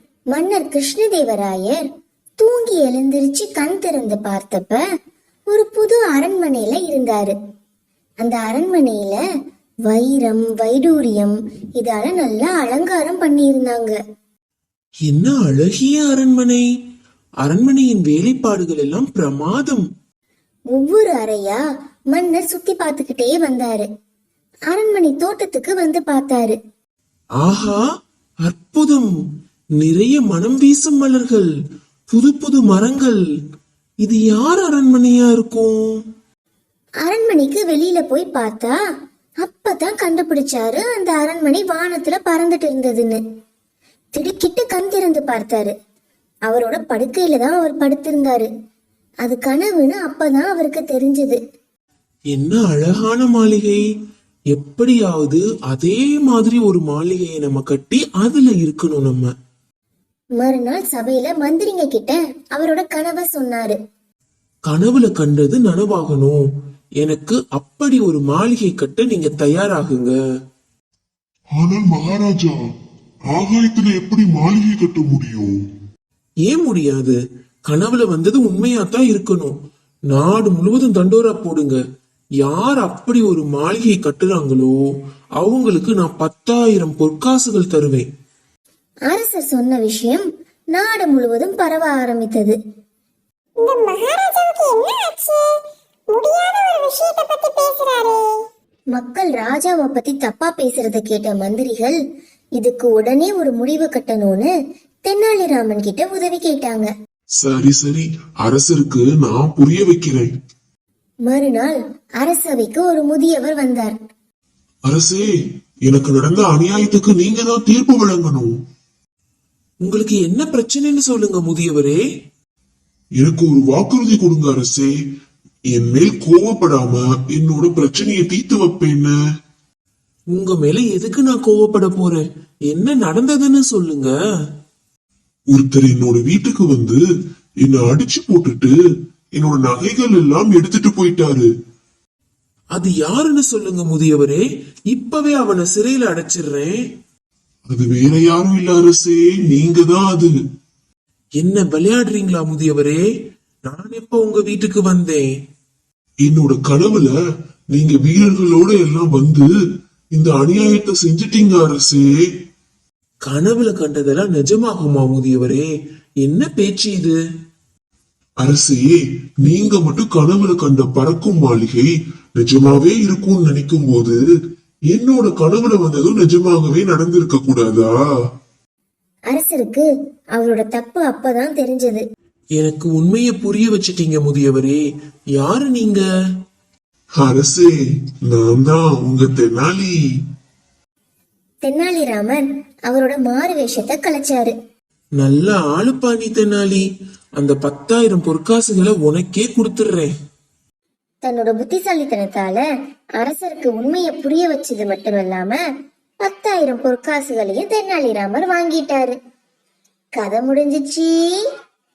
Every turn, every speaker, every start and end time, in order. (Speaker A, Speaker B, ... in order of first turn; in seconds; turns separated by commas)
Speaker A: 0.3-1.8, Speaker A: 2.4-4.8, Speaker A: 5.5-7.3, Speaker A: 8.2-9.2, Speaker A: 9.9-14.0, Speaker B: 15.1-16.6, Speaker B: 17.4-19.9, Speaker A: 20.7-21.6, Speaker A: 22.1-23.9, Speaker A: 24.7-26.6, Speaker B: 27.4-27.8, Speaker B: 28.4-29.1, Speaker B: 29.8-31.5, Speaker B: 32.1-33.2, Speaker B: 34.0-36.0, Speaker A: 37.0-38.8, Speaker A: 39.4-43.2, Speaker A: 44.1-45.7, Speaker A: 46.5-48.5, Speaker A: 49.2-51.4, Speaker B: 52.3-53.8, Speaker B: 54.5-59.3, Speaker A: 60.4-63.8, Speaker B: 64.7-66.4, Speaker B: 67.0-70.2, Speaker C: 71.5-72.7, Speaker C: 73.3-75.6, Speaker B: 76.5-79.5, Speaker B: 80.1-81.8, Speaker B: 82.4-84.8, Speaker B: 85.4-88.1, Speaker A: 89.1-92.6, Speaker D: 93.6-98.4, Speaker A: 98.9-102.0, Speaker A: 102.6-104.5, Speaker A: 105.0-106.9, Speaker C: 107.4-110.3, Speaker A: 111.3-114.0, Speaker C: 114.9-115.4, Speaker C: 115.9-118.5, Speaker B: 119.8-122.0, Speaker C: 123.2-125.0, Speaker C: 125.7-129.1, Speaker B: 130.3-134.1, Speaker C: 135.5-137.0, Speaker C: 137.6-138.7, Speaker C: 139.4-141.5, Speaker B: 142.7-146.8, Speaker C: 147.7-150.3, Speaker B: 151.4-153.0, Speaker B: 153.7-155.3, Speaker C: 156.2-157.1, Speaker C: 157.7-159.5, Speaker C: 160.1-162.3, Speaker B: 163.2-165.7, Speaker B: 166.2-167.2, Speaker C: 168.4-174.2, Speaker C: 174.9-177.9, Speaker A: 179.3-182.0, Speaker B: 182.6-184.8, Speaker B: 185.4-186.0, Speaker C: 187.2-190.0, Speaker A: 191.6-194.5, Speaker B: 195.2-196.8, Speaker B: 197.4-200.1, Speaker A: 201.2-202.6, Speaker A: 203.2-205.6, Speaker A: 206.2-209.2, Speaker A: 210.2-211.4